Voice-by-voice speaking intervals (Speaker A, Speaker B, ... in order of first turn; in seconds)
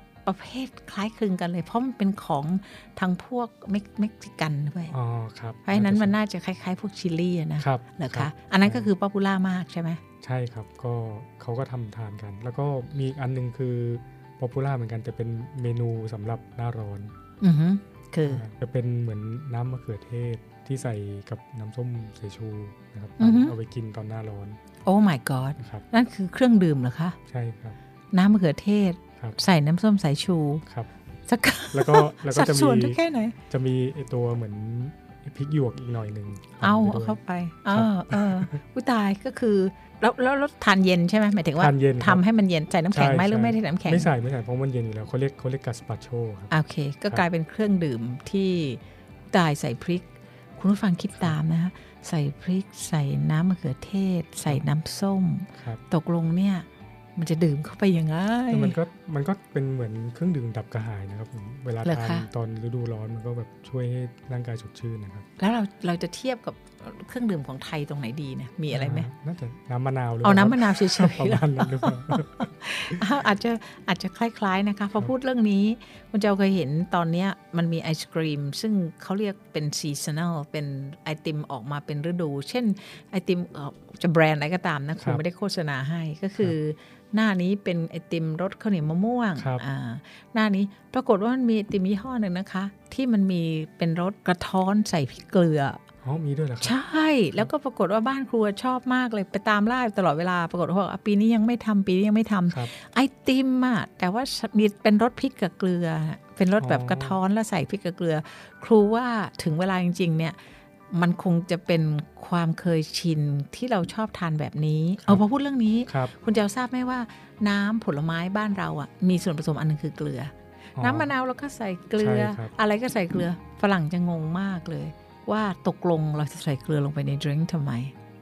Speaker A: 0.3-5.0, 5.7-10.0, 17.4-18.4, 23.2-23.5, 24.9-27.2, 28.1-30.6, 31.3-33.4, 36.6-44.1, 46.5-48.8, 49.3-58.8, 61.8-62.3, 65.4-69.1, 70.2-95.8, 96.6-110.4, 110.9-127.9
Speaker B: 4.9-6.2, 7.6-8.9, 10.2-17.1, 18.3-24.6, 25.6-25.9, 27.3-27.8, 31.7-38.6, 41.6-42.2, 42.9-46.5, 58.5-65.3, 68.7-73.0, 89.4-89.7, 96.0-96.8, 106.6-107.2, 115.9-116.1, 120.8-121.1, 122.0-122.5